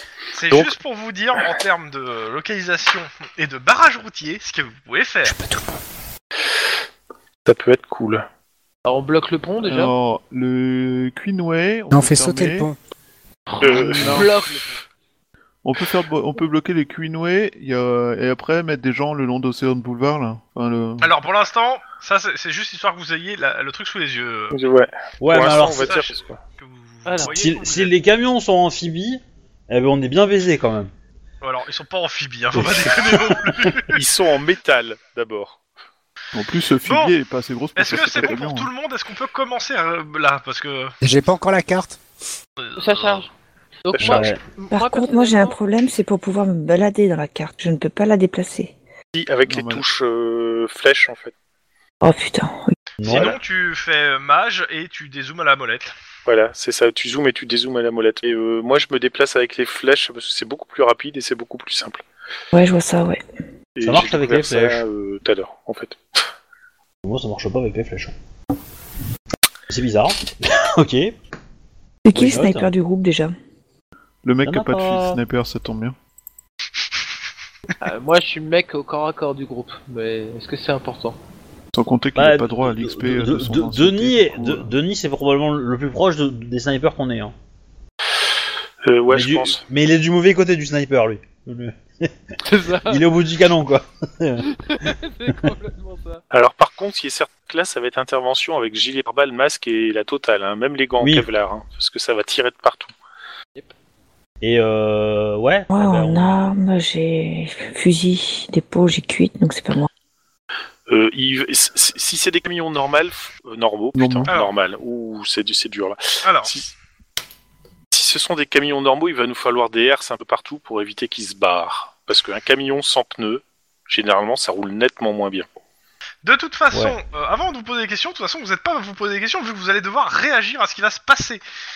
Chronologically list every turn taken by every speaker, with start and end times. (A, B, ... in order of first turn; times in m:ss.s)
0:00.3-0:05.3 A
0:05.2-0:05.8 B
0:07.4-0:08.2 C
0:08.8-0:09.9 D
0:09.6-0:12.7 E
0:11.9-0:12.8 B
0:13.5-0:14.8 D
0:13.6-0:14.3 C
0:13.6-0:14.3 E
0:15.6-0:21.1 E
0:21.0-0:24.6 A
0:24.5-0:26.4 C
0:25.2-0:26.0 F
0:25.4-0:27.9 A
0:27.0-0:27.4 D
0:27.2-0:30.9 F
0:31.4-0:34.0 A
0:32.6-0:33.6 F
0:33.9-0:35.6 C
0:36.3-0:38.7 E
0:36.8-0:37.1 A
0:37.8-0:40.9 A
0:41.0-0:42.0 B
0:42.6-0:43.2 A
0:42.8-0:43.3 D
0:43.8-0:45.6 D
0:43.9-0:44.3 C
0:44.0-0:44.4 F
0:44.7-0:48.7 G
0:49.1-0:51.3 C
0:49.4-0:49.8 E
0:52.0-0:52.7 G
0:53.0-0:53.3 F
0:53.0-0:53.4 C
0:53.0-0:55.9 A
0:56.2-1:02.0 C
1:02.5-1:03.2 G
1:03.8-1:06.2 C
1:03.8-1:04.8 F
1:07.0-1:08.1 F
1:09.7-1:11.1 F
1:12.0-1:13.3 G
1:12.1-1:12.7 F
1:14.2-1:16.0 E
1:14.4-1:15.2 F
1:17.8-1:21.2 D
1:21.7-1:24.7 E
1:22.1-1:27.3 F
1:28.8-1:29.6 C
1:29.1-1:32.2 F
1:32.4-1:33.1 D
1:32.9-1:34.4 F
1:34.4-1:36.2 D
1:36.3-1:42.9 C
1:41.0-1:41.3 F
1:44.4-1:46.4 F
1:45.7-1:49.9 G
1:50.9-1:56.7 C
1:53.9-1:54.3 E
1:56.2-1:56.5 A
1:57.9-2:05.4 C
2:06.2-2:11.4 A
2:06.7-2:07.0 F